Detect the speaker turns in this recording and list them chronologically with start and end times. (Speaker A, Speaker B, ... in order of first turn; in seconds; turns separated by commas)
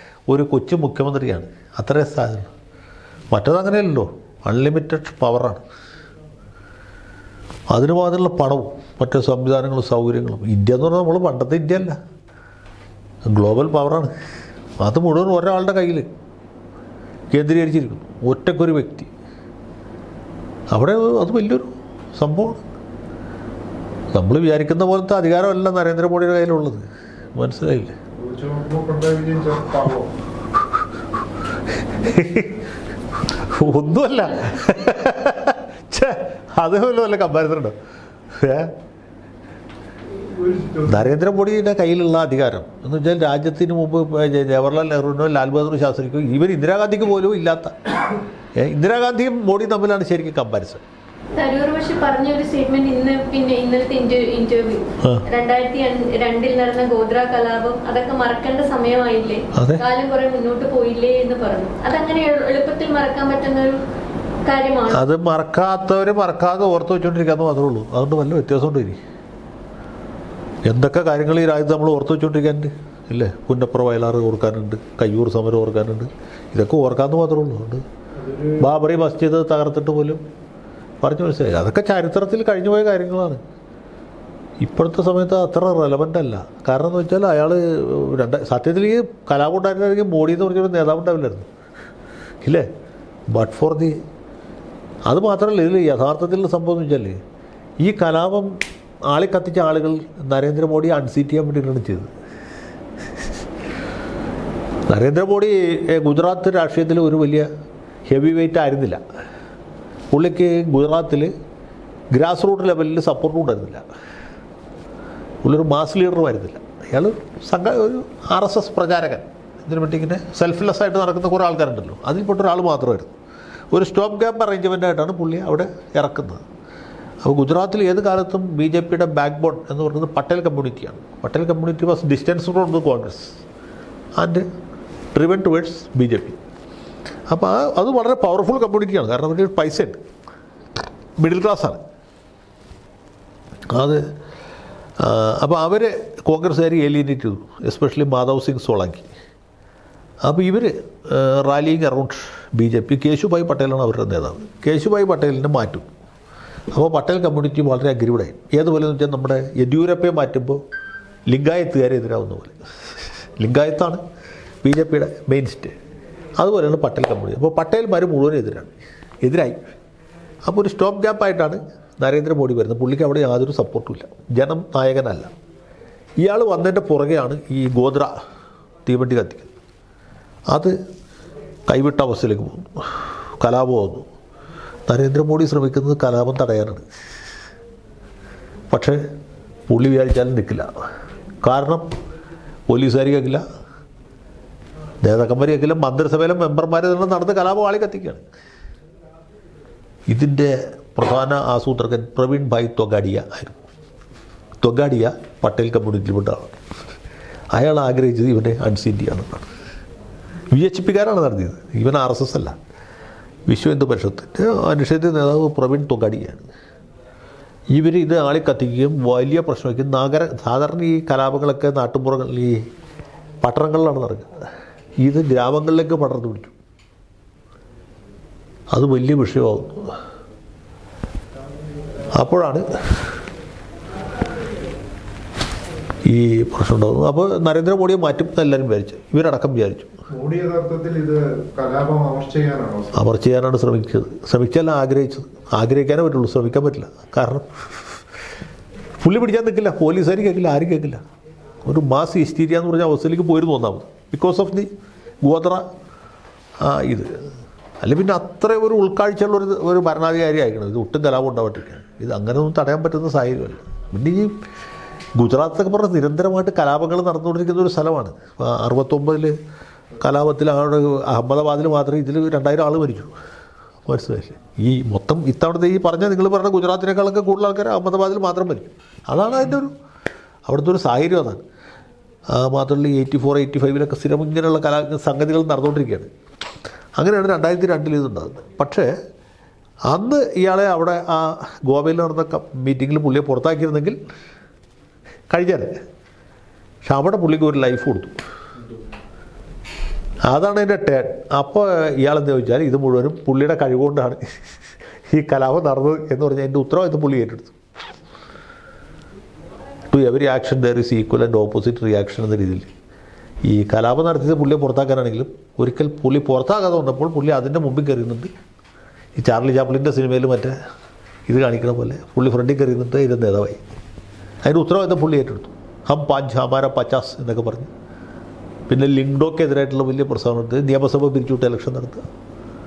Speaker A: 0.3-2.5, Speaker A: 3.3-5.6, Speaker A: 7.7-12.0, Speaker A: 13.2-14.1, Speaker A: 14.8-16.1, Speaker A: 17.3-19.1, Speaker A: 20.7-22.6, Speaker A: 24.1-28.0, Speaker B: 28.2-30.1, Speaker A: 31.9-32.7, Speaker A: 33.2-37.8, Speaker A: 38.3-38.7, Speaker B: 40.2-40.9, Speaker A: 40.8-47.9, Speaker A: 48.5-50.8, Speaker C: 51.3-63.8, Speaker A: 59.5-59.8, Speaker C: 64.5-65.0, Speaker A: 64.9-69.0, Speaker A: 70.7-77.8, Speaker B: 78.2-78.6, Speaker A: 78.6-80.2, Speaker A: 81.0-83.4, Speaker A: 84.6-91.5, Speaker A: 93.3-94.0, Speaker A: 95.1-97.2, Speaker A: 97.8-98.5, Speaker A: 99.1-102.1, Speaker A: 104.9-107.5, Speaker A: 108.1-109.0, Speaker A: 110.1-111.3, Speaker A: 112.1-113.8, Speaker A: 115.4-123.1, Speaker A: 123.7-126.4, Speaker A: 127.2-133.4, Speaker A: 134.2-134.5, Speaker A: 135.1-136.4, Speaker A: 137.3-140.0, Speaker A: 141.2-141.8, Speaker A: 143.7-144.0, Speaker A: 145.0-149.1, Speaker A: 150.2-155.9, Speaker A: 156.7-160.6, Speaker A: 161.3-162.6, Speaker A: 163.4-164.0, Speaker A: 164.6-165.8, Speaker A: 166.4-169.7, Speaker A: 170.4-175.3, Speaker A: 176.2-178.1, Speaker A: 178.8-179.5, Speaker A: 180.5-180.8, Speaker A: 181.7-184.1, Speaker A: 184.9-186.8, Speaker A: 188.7-189.0, Speaker A: 189.7-190.7, Speaker A: 191.4-191.9, Speaker A: 192.7-193.4, Speaker A: 195.0-198.2, Speaker A: 200.1-203.6, Speaker A: 204.6-206.6, Speaker A: 207.5-209.5, Speaker A: 210.5-212.6, Speaker A: 213.5-216.5, Speaker A: 217.7-222.6, Speaker A: 223.4-224.3, Speaker A: 225.0-226.6, Speaker A: 228.7-229.9, Speaker A: 232.2-232.6, Speaker A: 236.1-239.9, Speaker B: 240.1-242.9, Speaker A: 242.9-248.0, Speaker A: 249.0-251.0, Speaker A: 251.6-254.7, Speaker A: 255.2-255.7, Speaker A: 256.6-257.2, Speaker A: 257.8-264.3, Speaker A: 265.2-269.4, Speaker A: 270.0-273.1, Speaker A: 273.9-279.7, Speaker A: 280.5-281.4, Speaker A: 282.3-286.1, Speaker A: 287.0-288.9, Speaker A: 289.9-294.0, Speaker A: 295.3-295.8, Speaker A: 296.9-298.2, Speaker A: 300.3-304.2, Speaker A: 305.1-307.6, Speaker A: 309.9-312.7, Speaker A: 313.5-318.3, Speaker A: 319.2-320.6, Speaker A: 321.3-323.6, Speaker A: 324.4-327.7, Speaker A: 328.7-332.1